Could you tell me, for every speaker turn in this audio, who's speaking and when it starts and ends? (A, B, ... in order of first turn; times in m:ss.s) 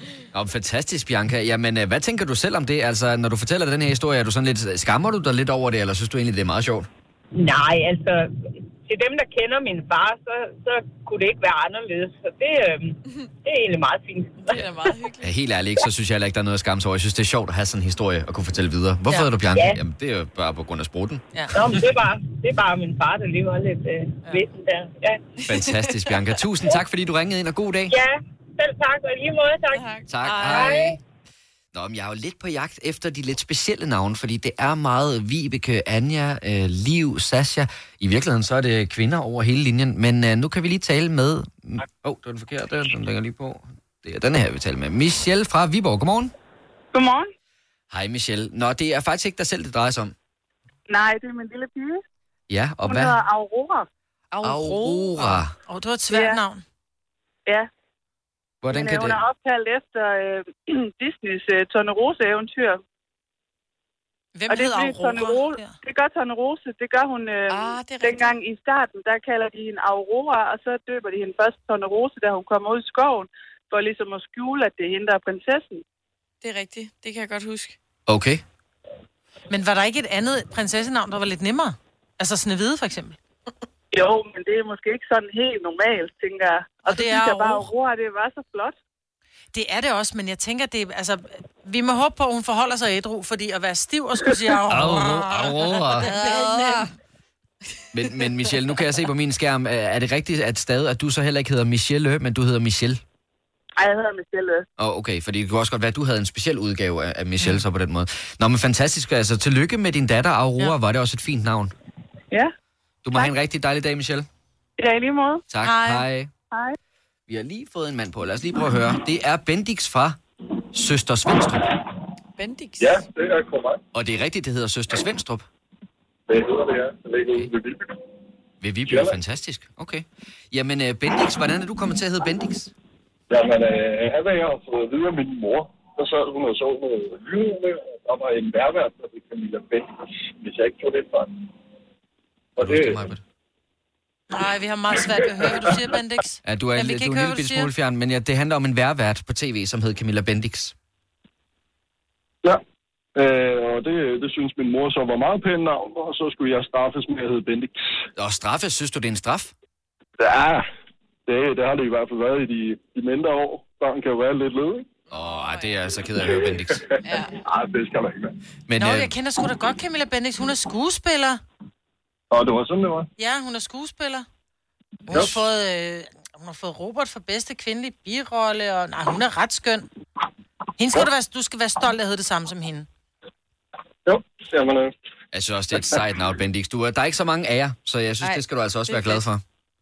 0:00.3-0:06.9 A
0:07.3-0:14.7 B
0:14.4-0:15.3 C
0:15.2-0:21.2 A
0:19.5-0:19.8 B
0:21.3-0:21.6 D
0:21.5-0:25.2 B
0:25.4-0:27.9 A
0:25.5-0:26.2 C
0:27.9-0:29.8 B
0:29.7-0:30.5 C
0:30.1-0:31.0 A
0:30.3-0:30.5 D
0:30.5-0:31.0 B
0:31.7-0:46.3 A
0:46.9-0:47.3 E
0:47.9-0:50.1 A
0:50.9-0:52.0 E
0:52.5-0:53.2 A
0:52.8-0:53.9 E
0:54.3-0:55.2 C
0:54.4-0:55.5 A
0:55.6-0:56.6 D
0:56.1-0:56.4 E
0:58.6-0:59.2 A
0:58.7-1:02.8 E
1:04.3-1:05.7 D
1:04.5-1:15.8 E
1:07.5-1:08.4 C
1:16.4-1:17.8 C
1:18.1-1:18.4 A
1:19.5-1:23.2 D
1:23.9-1:28.7 E
1:26.8-1:27.7 D
1:29.5-1:36.9 D
1:34.7-1:36.1 A
1:37.9-1:43.0 A
1:43.8-1:44.6 E
1:44.8-1:51.7 A
1:53.0-1:54.3 A
1:54.8-1:55.4 E
1:55.5-1:56.3 A
1:55.6-1:56.0 D
1:56.5-1:56.8 E
1:57.3-2:00.2 A
2:00.7-2:01.7 A
2:02.4-2:03.0 C
2:02.8-2:03.8 F
2:03.9-2:05.4 A
2:06.3-2:08.0 F
2:08.6-2:12.7 A
2:08.9-2:09.2 F
2:13.3-2:21.5 F
2:22.6-2:23.0 F
2:22.6-2:23.2 A
2:24.3-2:27.7 D
2:26.4-2:30.7 A
2:33.2-2:37.8 F
2:38.2-2:39.5 A
2:40.2-2:40.6 F
2:41.3-2:44.9 F
2:45.1-2:45.9 C
2:45.1-2:46.8 A
2:46.2-2:46.5 F
2:47.0-2:47.4 C
2:47.2-2:48.3 F
2:48.7-2:49.1 A
2:48.8-2:51.4 D
2:52.3-2:53.1 F
2:53.2-2:54.2 D
2:55.1-2:59.9 D
3:00.8-3:02.9 D
3:04.0-3:04.9 F
3:05.3-3:09.4 A
3:08.2-3:09.2 C